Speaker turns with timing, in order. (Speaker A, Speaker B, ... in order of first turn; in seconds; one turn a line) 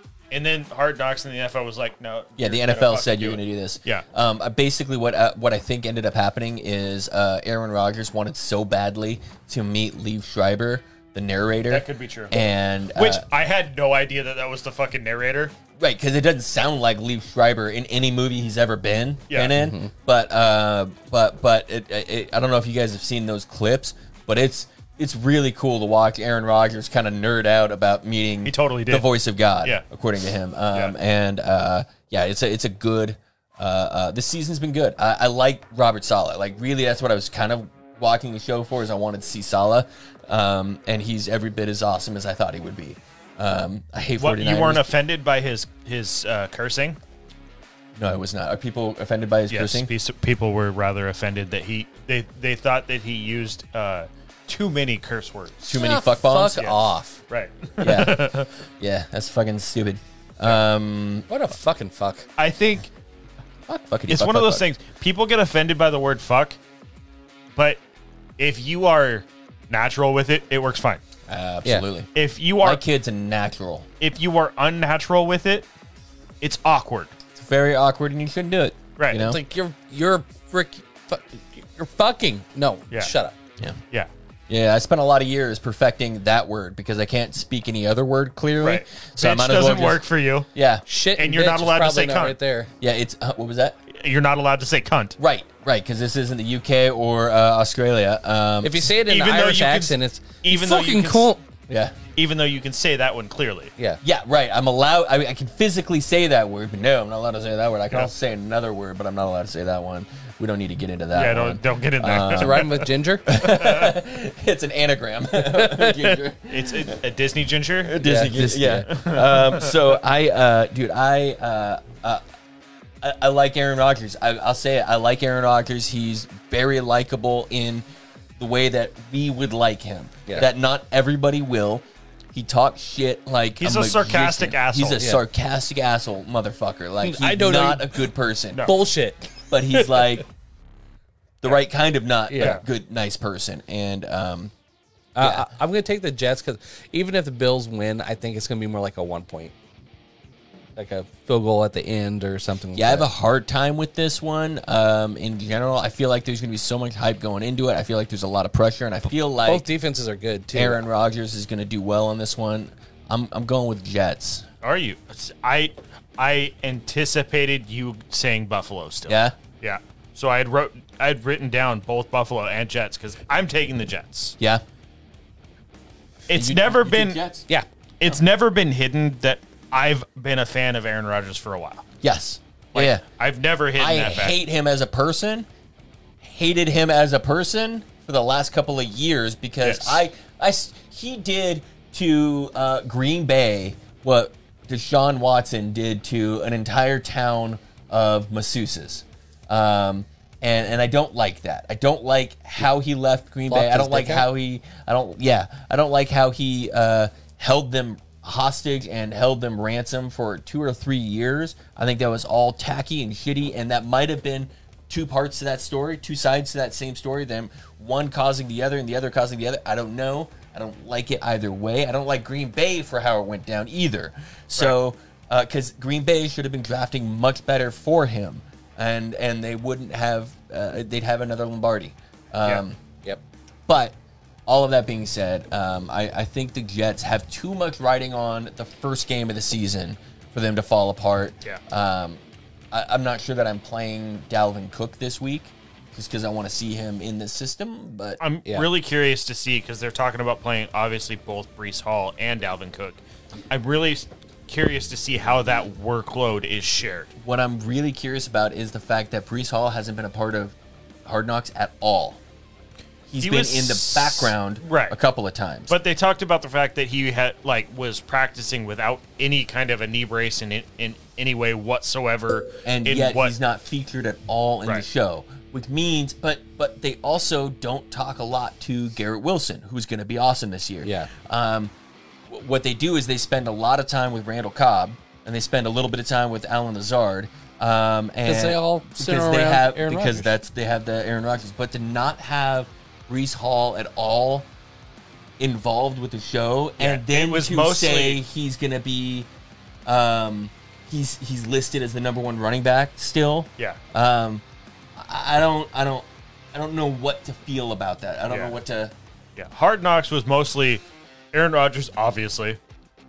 Speaker A: 0.3-4.0
Speaker B: 2.4-13.2
Speaker A: 11.7-12.3
Speaker A: 12.9-15.6
Speaker B: 15.8-44.9
Speaker C: 19.6-19.9
Speaker A: 28.5-29.1
Speaker A: 44.2-47.0
Speaker B: 48.0-49.9
Speaker A: 49.5-55.8
Speaker B: 55.7-56.7
Speaker C: 55.7-57.2
Speaker A: 56.6-58.5
Speaker B: 57.8-61.3
Speaker C: 61.3-62.3
Speaker A: 62.4-62.9
Speaker B: 63.7-64.7
Speaker A: 64.1-66.6
Speaker A: 68.4-71.0
Speaker B: 71.3-72.1
Speaker A: 72.2-72.8
Speaker B: 72.6-73.9
Speaker A: 74.0-75.7
Speaker A: 76.4-77.1
Speaker B: 77.3-79.4
Speaker A: 79.0-79.3
Speaker C: 79.2-83.4
Speaker B: 84.5-90.0
Speaker A: 88.6-90.5
Speaker B: 90.5-90.8
Speaker C: 90.9-92.7
Speaker A: 91.2-92.4
Speaker B: 92.8-93.8
Speaker A: 93.9-95.2
Speaker B: 95.2-98.9
Speaker C: 98.6-101.4
Speaker A: 99.1-101.3
Speaker B: 101.7-102.0
Speaker A: 102.2-103.7
Speaker B: 104.0-112.7
Speaker A: 111.1-113.9
Speaker C: 112.3-113.3
Speaker B: 113.3-117.0
Speaker C: 115.4-116.2
Speaker A: 116.5-118.0
Speaker B: 117.8-122.2
Speaker C: 118.0-118.9
Speaker A: 118.9-119.8
Speaker B: 123.0-127.8
Speaker B: 128.4-138.7
Speaker A: 133.6-135.1
Speaker C: 137.0-138.0
Speaker C: 138.6-140.2
Speaker B: 139.5-140.2
Speaker B: 141.4-144.5
Speaker C: 142.3-142.6
Speaker A: 142.4-142.6
Speaker C: 145.2-149.5
Speaker B: 145.2-145.5
Speaker C: 150.8-153.1
Speaker B: 152.8-159.7
Speaker C: 159.4-160.8
Speaker B: 160.5-164.5
Speaker A: 164.6-174.4
Speaker B: 169.1-169.3
Speaker A: 176.3-177.2
Speaker B: 176.3-177.5
Speaker A: 178.0-181.8
Speaker B: 182.0-183.0
Speaker A: 182.7-184.4
Speaker B: 183.8-185.5
Speaker B: 186.2-232.8
Speaker A: 189.6-190.1
Speaker C: 203.5-204.3
Speaker B: 233.7-234.0
Speaker B: 234.5-248.2
Speaker A: 248.2-257.1
Speaker B: 257.2-262.2
Speaker B: 263.1-265.7
Speaker A: 263.2-265.0
Speaker A: 265.7-273.4
Speaker B: 272.6-281.7
Speaker C: 280.8-281.1
Speaker B: 282.3-294.5
Speaker C: 288.2-290.4
Speaker B: 295.4-299.3
Speaker A: 296.8-298.2
Speaker B: 299.9-304.4
Speaker B: 305.0-308.9
Speaker A: 308.3-308.6
Speaker A: 309.4-312.6